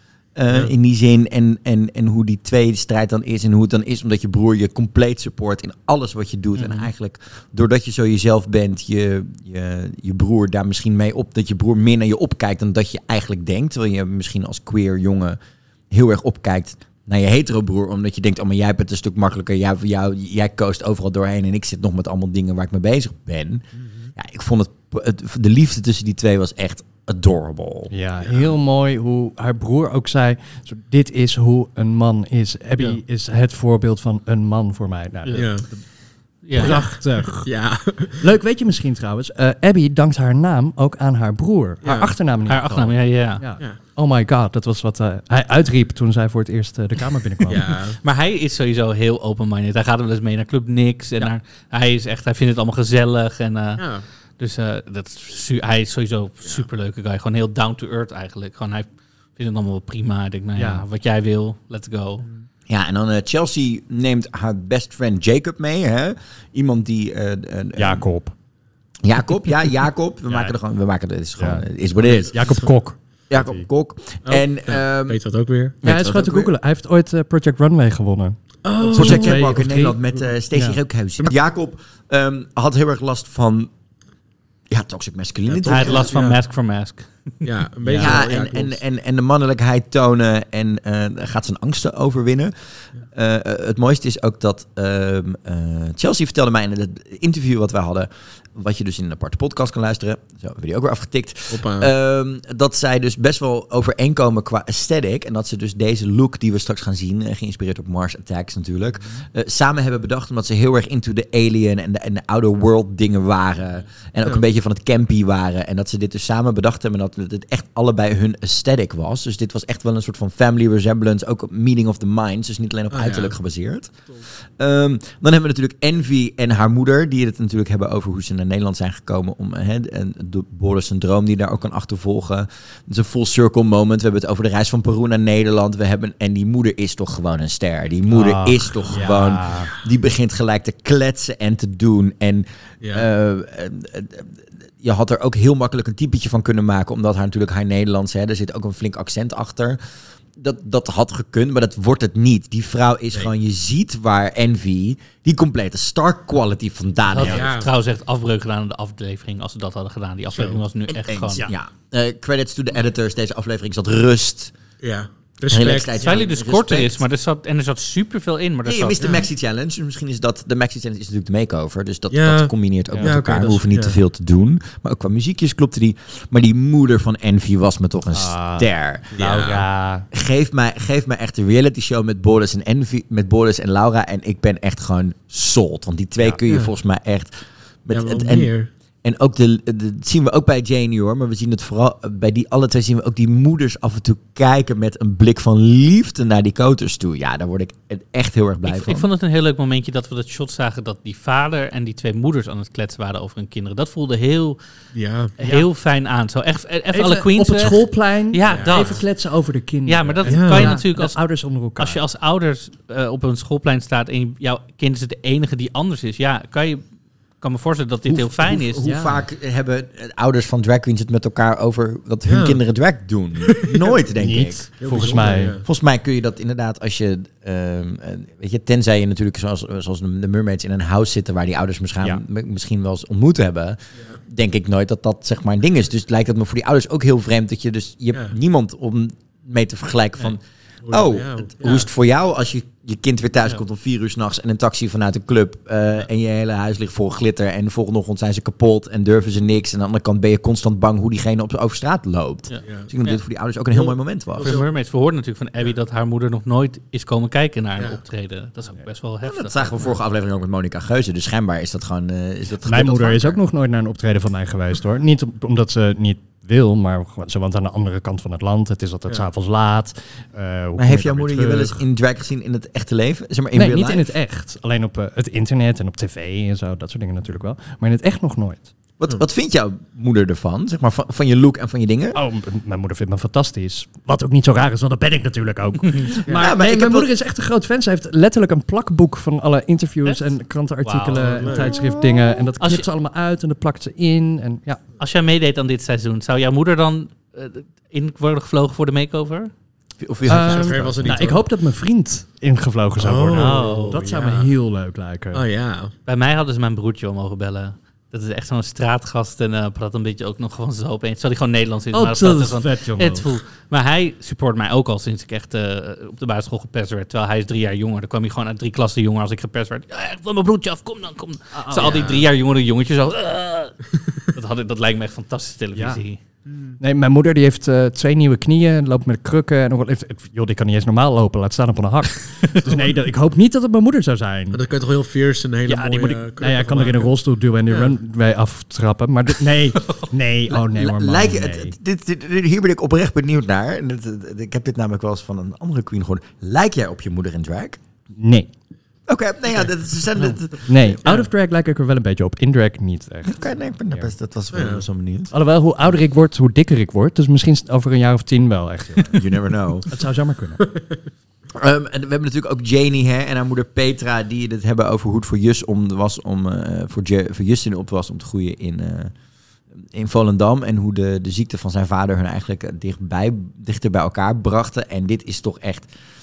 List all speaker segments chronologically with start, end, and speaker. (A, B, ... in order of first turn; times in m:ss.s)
0:00.4-0:15.4 A
0:06.6-0:06.9 B
0:15.9-0:23.6 A
0:23.8-0:24.1 C
0:24.2-0:27.9 A
0:27.9-0:35.9 D
0:35.4-0:35.7 C
0:36.4-0:36.8 B
0:36.5-0:37.6 D
0:36.6-0:38.2 C
0:38.2-0:47.7 D
0:41.8-0:42.1 C
0:42.5-0:43.4 B
0:47.5-0:48.0 C
0:48.0-1:02.3 B
0:53.8-0:54.0 C
1:00.6-1:00.8 D
1:02.7-1:08.1 A
1:07.8-1:08.4 D
1:09.0-1:12.7 A
1:10.3-1:10.6 D
1:11.4-1:13.7 D
1:12.0-1:12.7 C
1:13.3-1:15.2 A
1:14.3-1:15.8 C
1:15.8-1:16.5 A
1:15.8-1:20.8 D
1:18.6-1:19.6 C
1:18.9-1:23.7 A
1:24.7-1:26.1 A
1:25.5-1:26.4 C
1:25.7-1:27.4 B
1:27.4-1:28.8 C
1:27.8-1:28.2 D
1:28.0-1:32.5 A
1:33.1-2:29.8 A
1:41.5-1:41.9 C
1:49.0-1:49.2 C
2:02.9-2:03.4 C
2:18.1-2:19.7 D
2:30.4-2:37.5 A
2:37.1-2:41.4 B
2:37.2-2:37.7 C
2:40.3-2:40.6 C
2:41.0-2:44.5 A
2:44.8-2:46.0 C
2:45.5-2:47.0 A
2:46.0-2:49.1 B
2:48.6-2:59.2 A
2:52.1-2:54.0 C
2:52.9-2:53.2 D
2:58.1-3:00.1 D
2:59.2-2:59.6 C
3:00.1-3:07.3 A
3:06.5-3:06.7 C
3:07.9-3:08.5 A
3:07.9-3:08.7 C
3:09.0-3:19.1 A
3:18.6-3:24.6 B
3:24.9-3:25.3 C
3:25.4-3:29.1 B
3:25.4-3:25.7 D
3:26.9-3:32.0 D
3:28.5-3:29.0 C
3:29.9-3:36.8 B
3:30.2-3:30.8 C
3:37.4-3:38.8 B
3:38.1-4:14.5 A
3:38.5-3:39.3 D
3:42.3-3:42.6 C
3:43.5-3:43.9 C
3:44.2-3:45.6 D
3:44.8-3:45.6 C
4:00.8-4:01.9 C
4:12.5-4:13.2 B
4:12.6-4:12.9 C
4:13.7-4:14.7 C
4:14.4-4:19.7 B
4:19.3-4:23.4 A
4:22.6-4:31.8 D
4:30.8-4:34.1 A
4:33.5-4:38.7 D
4:39.0-4:42.2 A
4:42.2-4:54.8 D
4:46.4-4:47.1 A
4:50.0-4:50.3 B
4:50.8-4:51.7 B
4:51.2-4:51.8 C
4:52.6-4:52.8 B
4:55.0-4:59.5 B
5:00.0-5:01.1 A
5:00.3-5:05.4 D
5:00.3-5:01.4 C
5:03.0-5:04.5 C
5:03.3-5:04.0 B
5:05.3-5:05.9 C
5:06.1-5:23.8 B
5:11.9-5:13.4 D
5:21.5-5:22.3 D
5:21.8-5:22.2 C
5:24.3-5:26.2 B
5:25.8-5:26.0 D
5:26.5-5:26.8 C
5:26.8-5:34.6 D
5:34.5-5:37.1 C
5:35.7-5:41.8 D
5:40.7-5:47.8 A
5:48.2-5:48.5 D
5:49.1-5:51.0 A
5:50.7-5:54.1 D
5:53.3-5:55.3 A
5:54.5-5:54.8 C
5:55.3-5:59.2 D
5:59.2-5:59.9 A
5:59.9-6:00.7 D
6:01.6-6:09.1 A
6:09.9-6:15.9 A